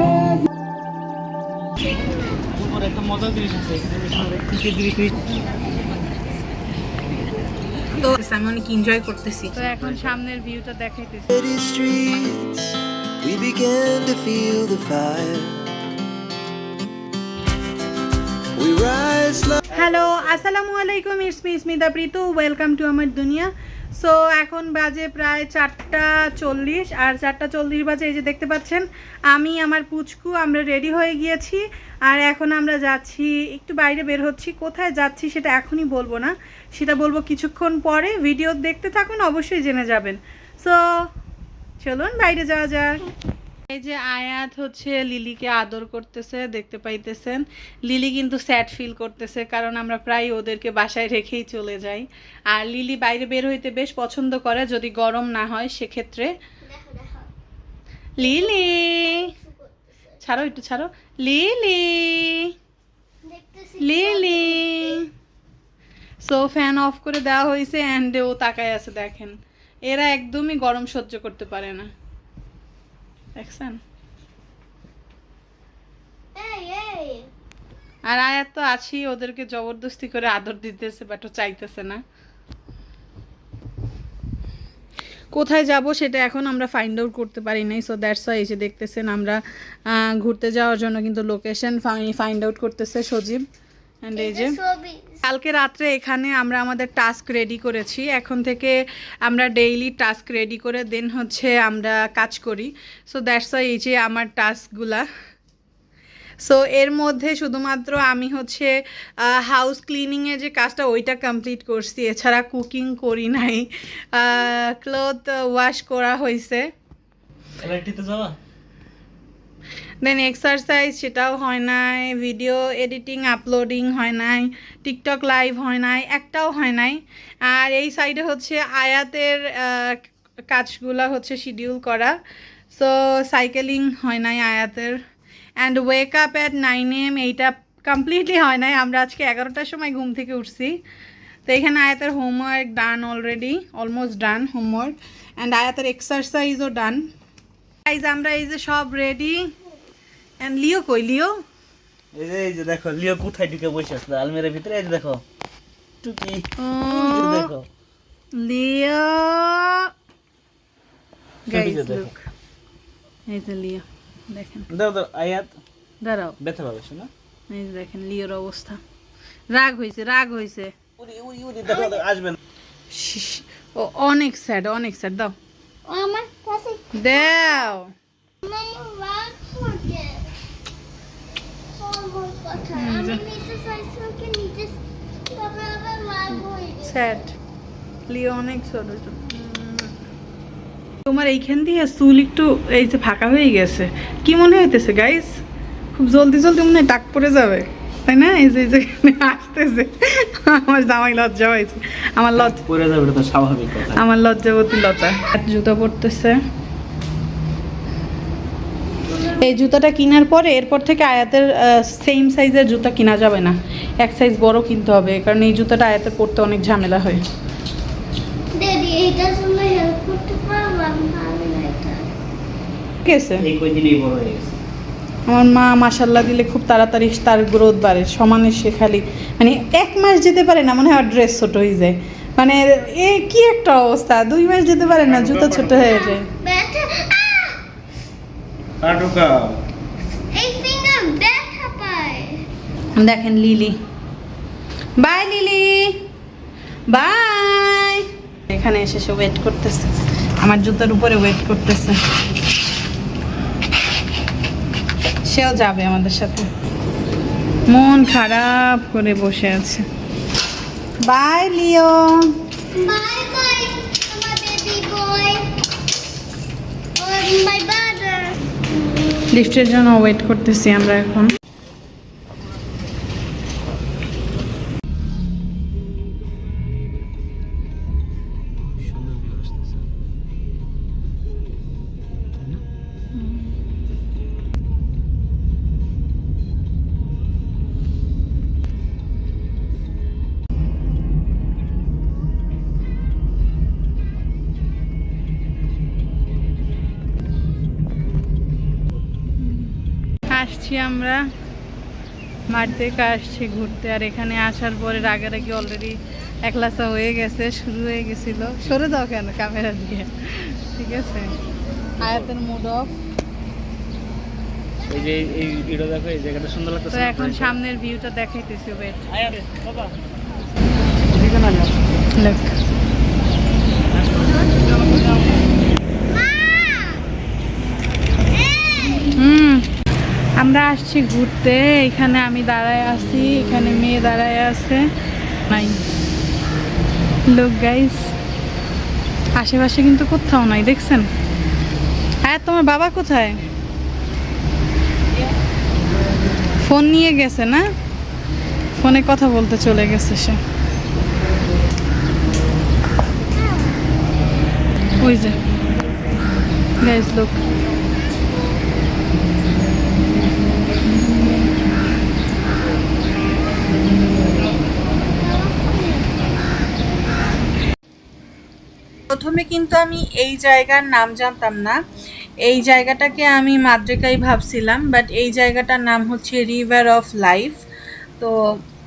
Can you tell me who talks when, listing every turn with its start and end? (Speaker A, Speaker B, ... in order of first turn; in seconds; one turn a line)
Speaker A: 2.4-5.2
Speaker B: 8.0-9.6
Speaker C: 9.5-11.3
Speaker A: 9.6-10.1
Speaker D: 11.3-15.7
Speaker D: 18.6-19.6
Speaker C: 19.7-40.8
Speaker C: 41.8-43.1
Speaker C: 43.7-56.3
Speaker E: 56.6-57.3
Speaker E: 58.2-60.2
Speaker C: 58.2-59.3
Speaker C: 60.2-62.5
Speaker E: 63.2-65.1
Speaker C: 63.8-65.1
Speaker C: 66.2-69.3
Speaker C: 69.9-71.9
Speaker C: 73.4-73.8
Speaker E: 76.3-77.3
Speaker C: 78.0-82.0
Speaker C: 85.3-93.4
Speaker C: 94.0-94.6
Speaker E: 94.1-95.2
Speaker C: 95.2-105.0
Speaker C: 106.4-108.7
Speaker C: 109.2-116.6
Speaker A: 117.6-118.3
Speaker C: 120.0-130.0
Speaker C: 130.5-132.1
Speaker C: 132.7-135.0
Speaker C: 135.6-140.7
Speaker C: 141.5-147.0
Speaker C: 147.9-149.4
Speaker C: 150.4-151.3
Speaker A: 152.1-155.2
Speaker A: 156.0-157.7
Speaker C: 156.6-157.5
Speaker C: 158.4-159.9
Speaker C: 161.5-162.2
Speaker A: 161.5-162.1
Speaker C: 163.3-164.6
Speaker A: 164.7-165.6
Speaker C: 166.0-166.3
Speaker A: 166.4-167.1
Speaker C: 167.5-168.8
Speaker C: 169.5-170.7
Speaker A: 171.0-172.4
Speaker E: 171.7-172.0
Speaker C: 172.9-175.3
Speaker E: 175.8-177.8
Speaker C: 177.0-177.9
Speaker E: 178.4-180.3
Speaker E: 181.7-187.1
Speaker C: 182.7-183.2
Speaker C: 186.9-187.3
Speaker C: 188.1-189.9
Speaker C: 191.1-195.4
Speaker C: 195.9-202.6
Speaker A: 202.3-204.0
Speaker C: 203.9-206.4
Speaker E: 209.1-209.4
Speaker C: 209.3-217.2
Speaker E: 218.5-222.1
Speaker C: 223.1-223.4
Speaker A: 223.4-224.6
Speaker C: 225.3-236.2
Speaker A: 235.0-236.0
Speaker E: 235.8-237.7
Speaker A: 238.8-239.6
Speaker E: 240.3-242.5
Speaker C: 242.9-243.8
Speaker C: 245.0-246.0
Speaker C: 246.9-252.0
Speaker C: 255.3-256.5
Speaker C: 257.7-259.8
Speaker C: 261.0-262.3
Speaker E: 262.7-265.6
Speaker E: 267.0-268.4
Speaker C: 269.3-271.3
Speaker A: 279.0-279.4
Speaker C: 299.4-299.7
Speaker C: 300.3-301.2
Speaker C: 302.5-311.3
Speaker C: 312.0-312.9
Speaker A: 314.9-317.6
Speaker C: 316.9-319.0
Speaker A: 319.1-319.9
Speaker A: 321.1-321.9
Speaker C: 322.2-322.5
Speaker A: 323.9-325.5
Speaker E: 326.1-327.0
Speaker E: 328.3-329.1
Speaker C: 329.1-329.6
Speaker C: 330.4-334.8
Speaker C: 335.5-335.8
Speaker C: 337.3-338.1
Speaker C: 339.4-341.1
Speaker C: 342.2-343.4
Speaker C: 346.6-347.6
Speaker C: 348.8-350.4
Speaker C: 355.0-355.4
Speaker C: 356.8-357.3
Speaker E: 365.0-366.4
Speaker B: 369.1-371.8
Speaker B: 372.4-377.6